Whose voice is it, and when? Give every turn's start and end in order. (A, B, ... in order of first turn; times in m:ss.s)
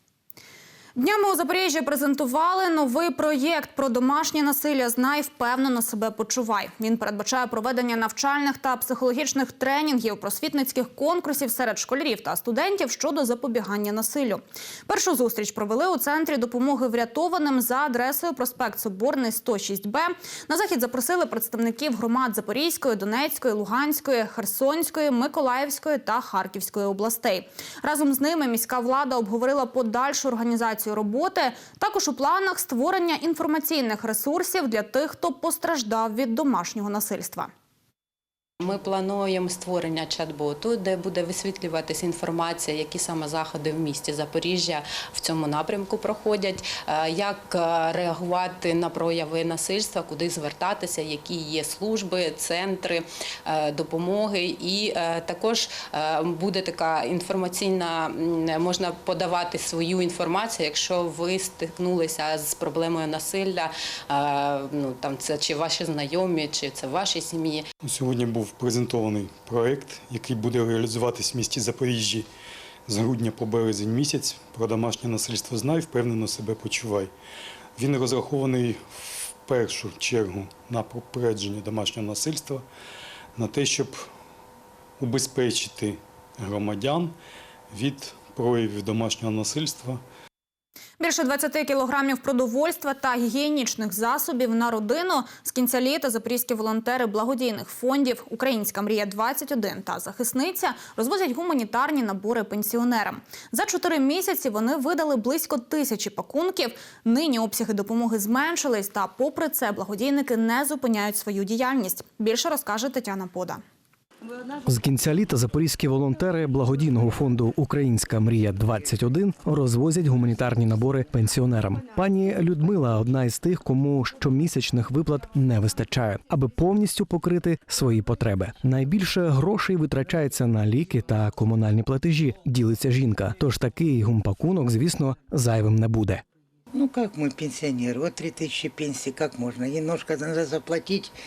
0:01.0-0:37.5 A
0:38.6-1:07.7 B
1:07.8-1:12.3 C
1:12.9-1:17.1 C
1:17.8-1:22.6 C
1:23.4-1:24.0 C
1:25.0-1:27.1 C
1:27.7-1:30.0 C
1:31.0-1:53.6 A
1:54.7-2:16.2 D
2:16.7-2:21.1 E